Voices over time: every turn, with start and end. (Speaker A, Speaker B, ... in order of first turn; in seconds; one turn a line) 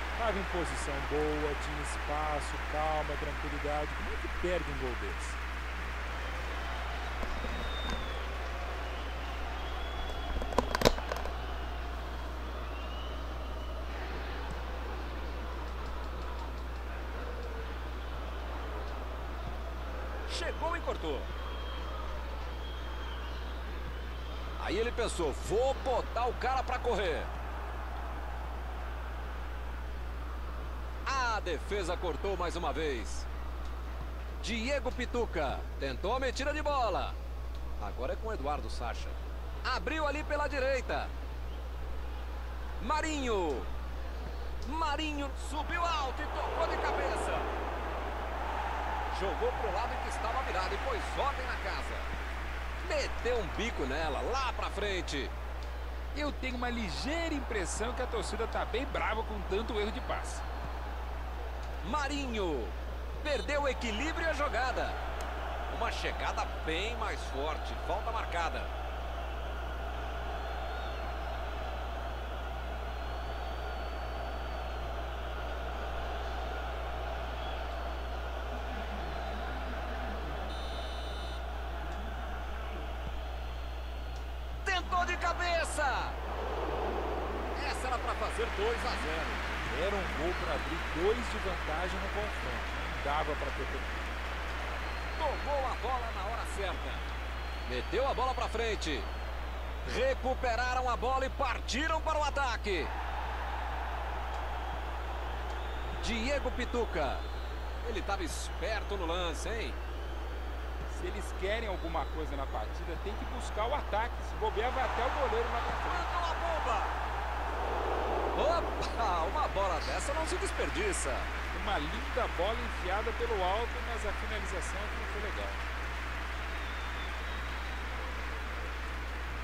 Speaker A: 0.2-5.4
Speaker B: 20.2-21.3
Speaker B: 24.6-27.3
Speaker B: 31.0-33.3
Speaker B: 34.4-37.2
Speaker B: 37.8-41.1
Speaker B: 42.8-43.7
Speaker B: 44.6-47.5
Speaker B: 49.1-52.1
Speaker B: 52.8-55.3
Speaker A: 56.1-60.4
Speaker B: 61.8-65.0
Speaker B: 65.7-68.7
Speaker B: 84.6-86.2
Speaker B: 87.5-89.5
Speaker A: 89.7-94.0
Speaker B: 95.2-97.0
Speaker B: 97.7-99.1
Speaker B: 99.8-102.9
Speaker B: 106.0-107.2
Speaker B: 107.8-109.8
Speaker A: 110.9-116.1
Speaker B: 115.8-117.0
Speaker B: 118.3-121.3
Speaker A: 121.5-125.7